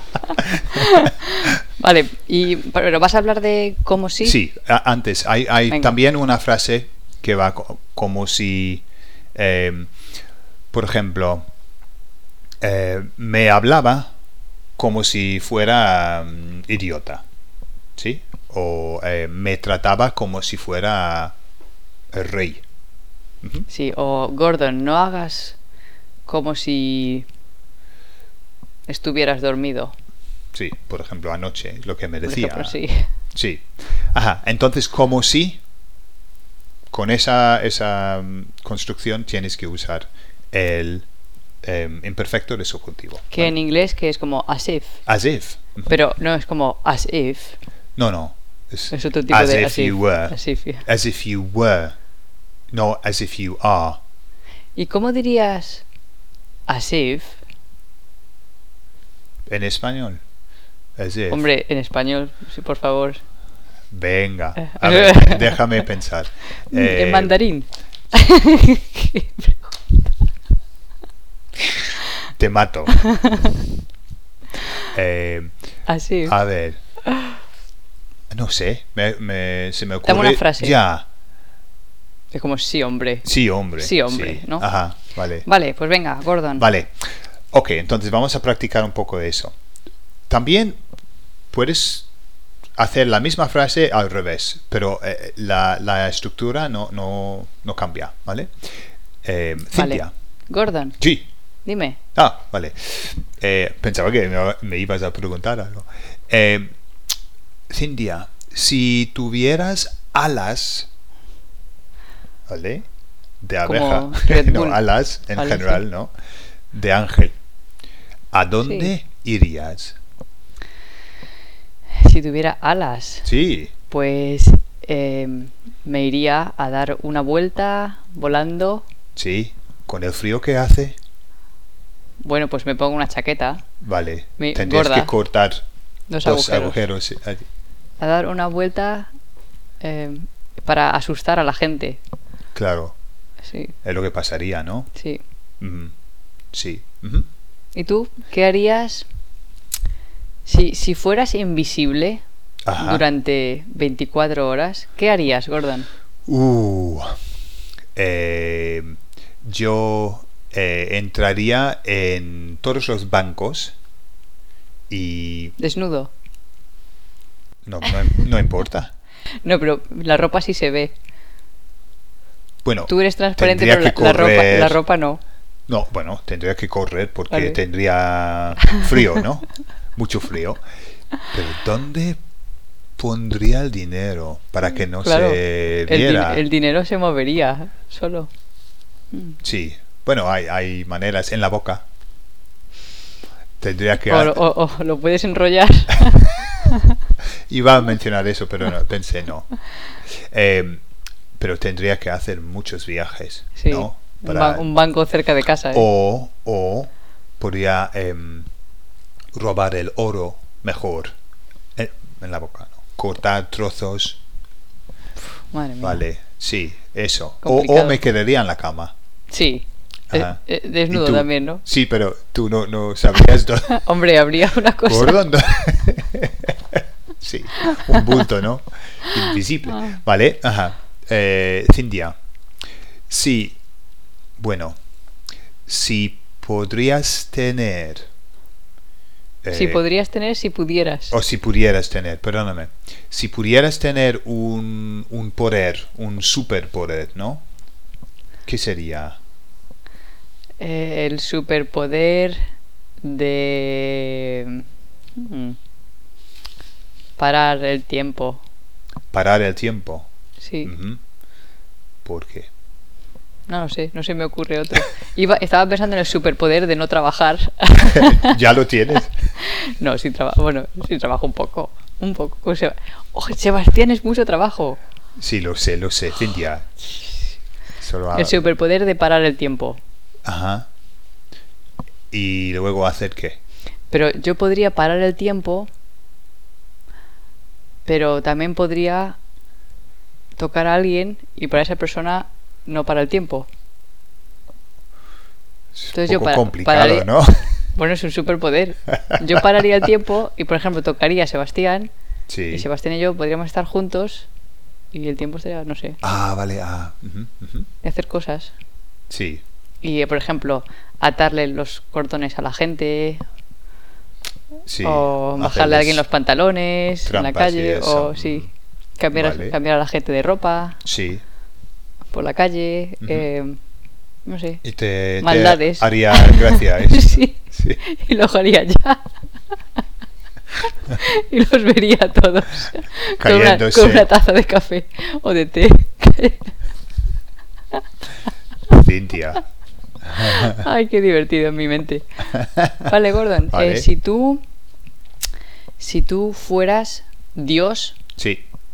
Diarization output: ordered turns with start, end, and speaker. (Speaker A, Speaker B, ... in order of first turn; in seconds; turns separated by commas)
Speaker A: 0.7-4.4, Speaker B: 4.2-8.8, Speaker A: 5.7-5.9, Speaker B: 9.3-9.9, Speaker B: 10.7-11.4, Speaker B: 12.6-14.1, Speaker B: 14.8-17.2, Speaker B: 18.0-21.4, Speaker B: 22.1-22.6, Speaker B: 23.4-23.7, Speaker A: 23.7-25.6, Speaker A: 26.3-27.2, Speaker A: 28.9-29.9, Speaker B: 30.5-32.8, Speaker A: 32.2-33.1, Speaker B: 33.3-35.6, Speaker B: 36.9-41.1, Speaker B: 41.6-43.5, Speaker A: 43.3-45.0, Speaker B: 45.1-45.9, Speaker A: 45.9-47.6, Speaker B: 48.0-52.0, Speaker A: 48.9-50.8, Speaker B: 52.7-54.0, Speaker A: 54.8-55.8, Speaker A: 56.7-57.4, Speaker B: 59.5-60.2, Speaker B: 61.0-61.5, Speaker A: 61.3-63.2, Speaker B: 63.9-67.4, Speaker A: 64.6-65.9, Speaker A: 66.7-70.1, Speaker B: 72.4-73.1, Speaker A: 73.0-73.6, Speaker B: 74.9-75.5, Speaker A: 75.9-76.3, Speaker B: 76.2-76.8, Speaker B: 78.3-81.0, Speaker A: 80.0-80.8, Speaker A: 82.3-83.2, Speaker B: 83.2-85.5, Speaker A: 83.8-84.7, Speaker A: 85.4-86.7, Speaker B: 86.6-89.5, Speaker B: 90.3-90.8, Speaker B: 91.5-92.1, Speaker B: 92.8-98.5, Speaker B: 99.2-100.1, Speaker A: 99.7-101.0, Speaker B: 101.0-101.2, Speaker A: 101.7-102.0, Speaker B: 102.2-106.7, Speaker B: 107.7-110.9, Speaker B: 112.5-112.9, Speaker B: 113.4-116.1, Speaker A: 113.7-114.8, Speaker A: 115.3-115.8, Speaker B: 116.7-117.3, Speaker B: 118.3-120.0, Speaker A: 118.6-118.9, Speaker A: 122.0-123.3, Speaker B: 123.2-123.7, Speaker A: 123.9-128.8, Speaker B: 129.2-131.0, Speaker A: 132.2-133.6, Speaker B: 133.8-135.6, Speaker A: 134.4-135.1, Speaker A: 136.1-136.8, Speaker B: 136.2-137.4, Speaker A: 138.0-139.1, Speaker A: 139.8-142.0, Speaker B: 142.6-142.9, Speaker A: 143.5-143.7, Speaker B: 143.8-144.9, Speaker A: 144.9-145.2, Speaker B: 145.6-145.9, Speaker B: 146.5-147.2, Speaker A: 147.8-149.1, Speaker A: 150.5-152.2, Speaker B: 152.7-153.0, Speaker A: 152.8-155.9, Speaker B: 156.3-157.2, Speaker B: 158.0-163.8, Speaker B: 164.9-165.6, Speaker A: 165.6-166.1, Speaker B: 167.7-168.9, Speaker A: 169.4-170.9, Speaker B: 172.6-174.8, Speaker A: 172.9-175.2, Speaker B: 175.7-180.6, Speaker A: 177.3-177.6, Speaker B: 181.3-182.2, Speaker B: 183.0-186.4, Speaker A: 184.8-188.3, Speaker B: 189.4-191.8, Speaker B: 193.6-194.4, Speaker A: 194.1-197.0, Speaker B: 197.5-199.5, Speaker B: 200.1-200.8, Speaker B: 201.4-204.7, Speaker A: 203.6-205.9, Speaker B: 205.7-208.5, Speaker B: 209.3-211.1, Speaker B: 211.8-214.2, Speaker A: 215.5-216.0, Speaker B: 215.8-218.9, Speaker A: 217.4-218.0, Speaker A: 219.3-221.6, Speaker B: 220.1-220.4, Speaker B: 220.9-223.8, Speaker A: 223.7-225.2, Speaker B: 224.8-232.2, Speaker A: 227.6-228.2, Speaker A: 229.1-230.0, Speaker B: 233.1-233.6, Speaker B: 234.4-234.8, Speaker B: 235.7-238.1, Speaker B: 239.4-239.8, Speaker A: 239.5-241.1, Speaker B: 241.1-247.4, Speaker B: 248.4-249.2, Speaker A: 250.6-252.4, Speaker A: 253.0-254.6, Speaker A: 255.2-255.6, Speaker A: 257.2-258.4, Speaker B: 259.1-260.1, Speaker A: 260.4-260.7, Speaker B: 260.6-261.0, Speaker B: 262.1-262.5, Speaker A: 263.5-268.4, Speaker B: 267.9-269.3, Speaker A: 269.4-274.8, Speaker B: 275.2-276.7, Speaker B: 277.8-278.4, Speaker A: 278.1-279.8, Speaker B: 280.2-280.7, Speaker B: 282.1-283.4, Speaker A: 283.9-285.7, Speaker A: 287.8-289.2, Speaker A: 290.4-293.5, Speaker B: 295.8-297.6, Speaker A: 295.9-297.1, Speaker A: 297.7-301.9, Speaker B: 302.3-302.7, Speaker A: 302.5-304.3, Speaker A: 304.9-306.0, Speaker B: 306.0-307.7, Speaker A: 307.8-308.5, Speaker B: 309.1-309.4, Speaker A: 309.8-313.2, Speaker B: 314.7-316.0, Speaker A: 314.8-318.5, Speaker B: 317.1-318.5, Speaker A: 319.0-320.8, Speaker B: 319.1-319.6, Speaker B: 320.8-321.2, Speaker A: 322.1-323.6, Speaker B: 323.0-323.3, Speaker A: 324.3-324.6, Speaker B: 324.6-327.8, Speaker A: 325.2-329.0, Speaker A: 330.9-336.5, Speaker B: 333.2-334.1, Speaker B: 338.7-339.4, Speaker B: 340.1-340.6, Speaker A: 340.2-342.2, Speaker B: 342.4-342.9, Speaker A: 342.8-344.4, Speaker B: 343.5-343.9, Speaker A: 345.8-348.0, Speaker B: 348.2-348.4